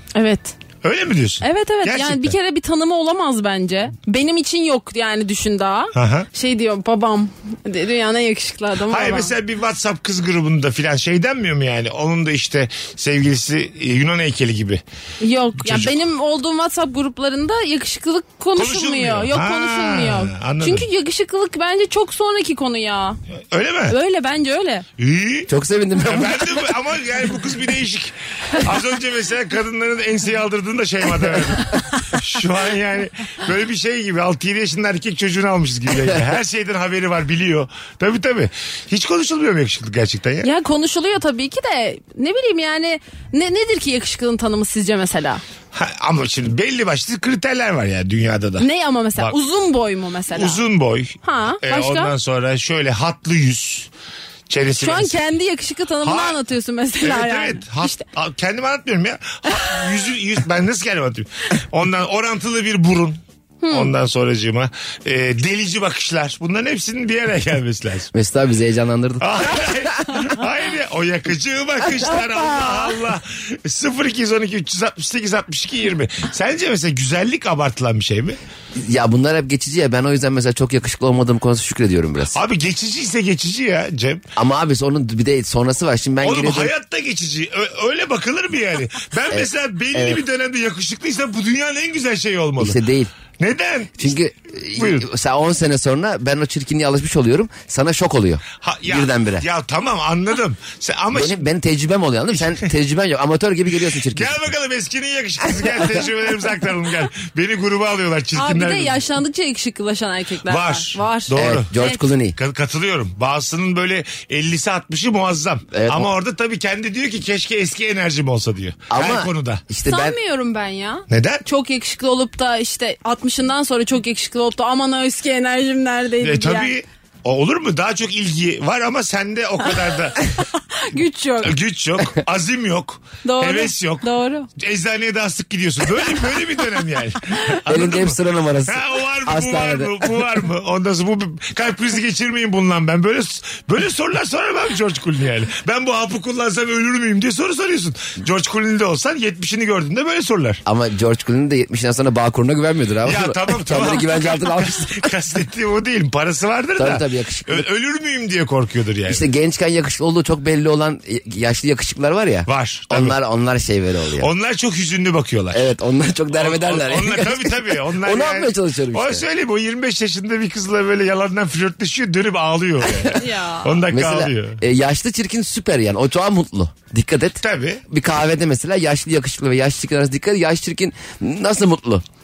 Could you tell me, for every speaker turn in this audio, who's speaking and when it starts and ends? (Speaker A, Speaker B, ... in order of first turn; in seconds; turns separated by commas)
Speaker A: 0.1-0.6, Speaker B: 0.8-2.4, Speaker A: 1.4-9.3, Speaker B: 6.0-6.3, Speaker B: 8.9-14.8, Speaker A: 15.2-23.2, Speaker B: 15.6-16.0, Speaker B: 18.6-20.9, Speaker B: 23.5-24.0, Speaker A: 23.9-24.9, Speaker B: 25.0-25.5, Speaker C: 25.5-26.7, Speaker B: 26.0-40.5, Speaker A: 40.4-45.4, Speaker B: 45.7-49.4, Speaker A: 48.6-50.6, Speaker B: 50.3-53.9, Speaker A: 51.2-52.1, Speaker B: 54.5-55.2, Speaker A: 54.8-58.0, Speaker B: 56.0-56.4, Speaker B: 57.0-63.2, Speaker A: 63.6-63.9, Speaker B: 63.7-68.1, Speaker C: 68.1-70.2, Speaker B: 69.2-78.4, Speaker A: 72.5-73.0, Speaker C: 78.8-82.4, Speaker B: 82.3-84.2, Speaker C: 84.4-86.7, Speaker B: 86.2-92.8, Speaker C: 89.3-90.2, Speaker C: 92.6-93.1, Speaker B: 93.4-94.2, Speaker C: 94.0-99.5, Speaker B: 94.8-95.1, Speaker B: 98.6-101.5, Speaker C: 101.1-104.5, Speaker B: 104.1-109.0, Speaker A: 108.4-112.0, Speaker B: 110.5-111.8, Speaker C: 111.3-112.4, Speaker B: 112.4-119.6, Speaker C: 115.7-116.1, Speaker C: 118.9-120.2, Speaker A: 119.9-126.7, Speaker B: 121.1-121.4, Speaker B: 126.2-130.3, Speaker A: 130.2-131.5, Speaker B: 131.4-150.6, Speaker A: 133.2-134.5, Speaker C: 137.7-140.3, Speaker C: 150.7-155.1, Speaker B: 153.1-159.2, Speaker C: 156.8-157.7, Speaker C: 159.1-164.3, Speaker B: 162.5-163.2, Speaker B: 164.2-165.7, Speaker C: 165.5-169.2, Speaker B: 166.3-174.6, Speaker A: 173.2-173.8, Speaker C: 173.9-182.0, Speaker B: 177.4-177.8